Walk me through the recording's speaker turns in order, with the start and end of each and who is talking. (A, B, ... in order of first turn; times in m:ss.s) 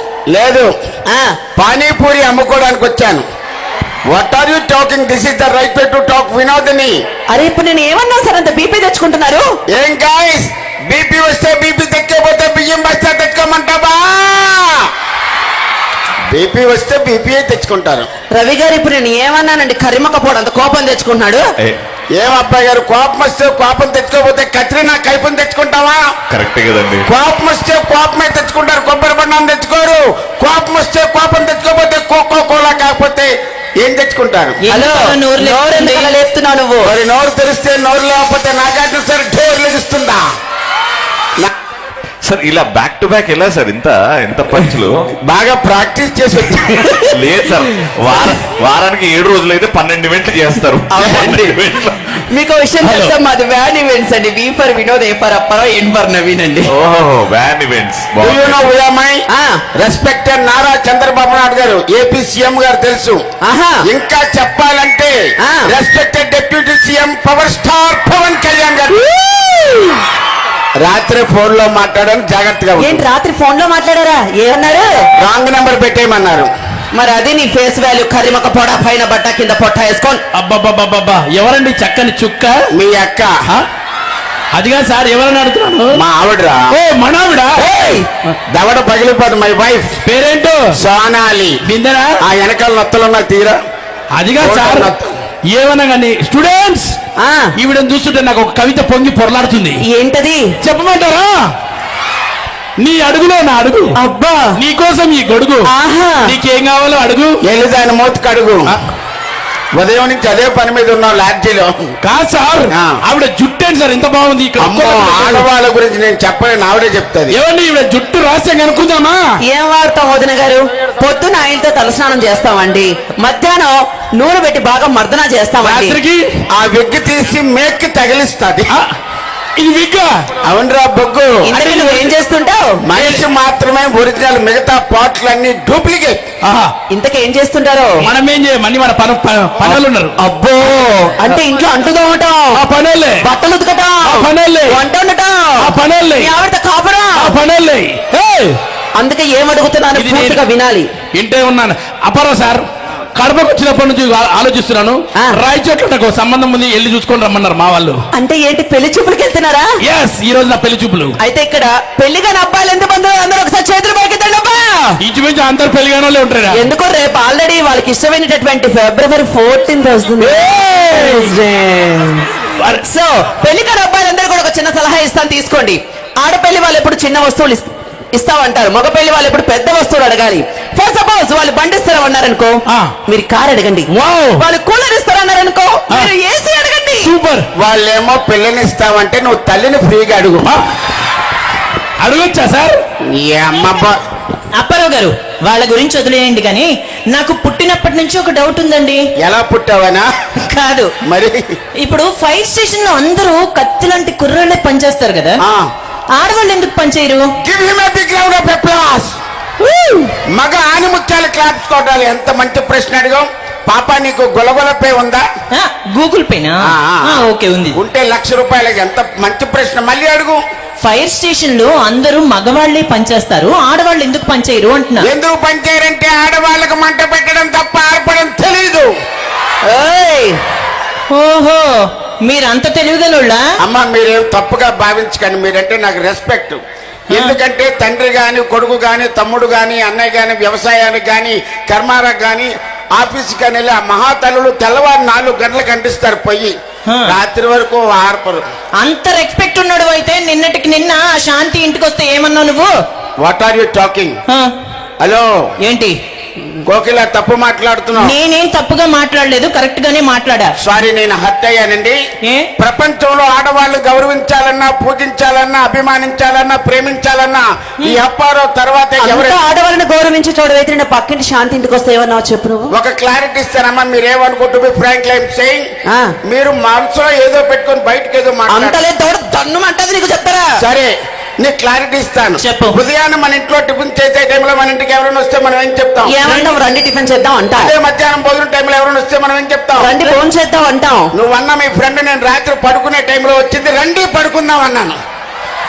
0:00.3-0:00.7 A
0:01.1-0:01.4 B
0:01.6-0:03.3 A
0:04.1-0:07.0 A
0:07.3-0:09.5 B
0:09.7-0:14.9 A
0:16.3-0:18.1 A
0:18.3-0:21.4 B
0:22.2-0:26.1 A
0:26.3-0:27.1 C
0:27.0-0:34.6 A
0:34.6-0:36.2 D
0:34.7-0:36.9 B
0:36.8-0:40.2 A
0:42.2-0:45.1 C
0:45.3-0:46.8 A
0:46.7-0:47.2 B
0:47.1-0:52.2 C
0:50.9-0:51.6 B
0:52.3-0:56.7 B
0:52.8-0:53.2 E
0:56.7-0:58.7 C
0:58.2-0:59.2 A
0:59.3-0:59.6 B
0:59.8-1:03.2 A
1:03.4-1:03.8 B
1:03.8-1:09.0 A
1:05.4-1:05.7 B
1:08.9-1:10.0 B
1:10.8-1:13.0 A
1:12.8-1:15.1 B
1:15.2-1:16.5 A
1:16.9-1:20.2 B
1:20.3-1:22.6 E
1:22.7-1:23.3 A
1:24.5-1:26.0 E
1:25.9-1:26.8 A
1:26.7-1:27.6 E
1:27.6-1:28.1 B
1:28.5-1:30.0 A
1:30.0-1:30.7 E
1:30.8-1:31.6 A
1:31.7-1:32.2 E
1:32.2-1:33.6 A
1:34.2-1:34.9 E
1:34.4-1:35.1 A
1:35.5-1:37.0 E
1:37.2-1:37.5 B
1:37.6-1:39.8 E
1:39.8-1:40.4 B
1:40.6-1:41.5 E
1:42.8-1:44.0 E
1:43.9-1:44.6 B
1:44.6-1:45.7 E
1:45.7-1:46.4 B
1:46.2-1:47.4 E
1:47.4-1:48.8 A
1:49.7-1:51.7 A
1:52.0-1:55.5 E
1:52.7-1:53.0 A
1:54.6-1:57.4 A
1:57.3-1:59.2 E
1:59.5-2:06.0 B
2:05.6-2:06.2 E
2:06.5-2:08.8 A
2:09.6-2:10.2 E
2:10.4-2:11.5 A
2:11.4-2:12.8 B
2:11.6-2:12.1 E
2:12.8-2:16.2 A
2:13.0-2:13.2 E
2:16.4-2:16.7 E
2:16.9-2:18.1 B
2:18.0-2:20.2 E
2:20.2-2:22.6 B
2:22.5-2:23.2 E
2:23.2-2:27.4 B
2:24.0-2:24.8 E
2:25.6-2:26.3 E
2:27.2-2:28.6 E
2:29.0-2:30.9 B
2:30.0-2:30.4 E
2:31.1-2:38.0 E
2:38.2-2:39.7 B
2:39.8-2:41.2 E
2:41.2-2:45.0 B
2:45.0-2:46.6 E
2:46.5-3:07.1 B
2:50.2-2:51.3 E
2:52.5-2:52.8 E
3:02.7-3:02.9 E
3:03.9-3:04.4 E
3:07.0-3:07.5 E
3:07.6-3:10.5 A
3:12.0-3:12.8 E
3:13.1-3:14.0 A
3:14.6-3:19.0 D
3:19.2-3:20.1 A
3:20.5-3:20.9 D
3:21.0-3:21.6 A
3:21.8-3:25.4 D
3:26.2-3:27.2 D
3:27.4-3:29.2 A
3:29.6-3:30.1 D
3:30.3-3:35.2 A
3:35.5-3:37.8 D
3:36.7-3:37.2 A
3:37.7-3:40.4 A
3:40.8-3:45.1 D
3:45.0-3:48.9 A
3:49.7-3:50.4 B
3:51.1-3:53.4 D
3:53.6-3:56.6 A
3:57.1-3:57.3 D
3:57.1-4:08.4 A
4:08.8-4:12.7 D
4:13.2-4:14.2 A
4:15.0-4:15.3 A
4:15.6-4:16.0 D
4:16.6-4:18.1 A
4:18.0-4:20.5 D
4:20.6-4:22.0 A
4:22.6-4:29.4 A
4:29.0-4:32.7 B
4:32.7-4:35.7 A
4:35.9-4:36.1 B
4:36.2-4:38.8 A
4:38.5-4:40.5 B
4:40.6-4:46.1 A
4:42.4-4:42.8 D
4:46.0-4:47.7 B
4:46.2-4:46.5 D
4:47.6-4:50.1 A
4:49.8-4:51.1 B
4:51.1-4:55.0 A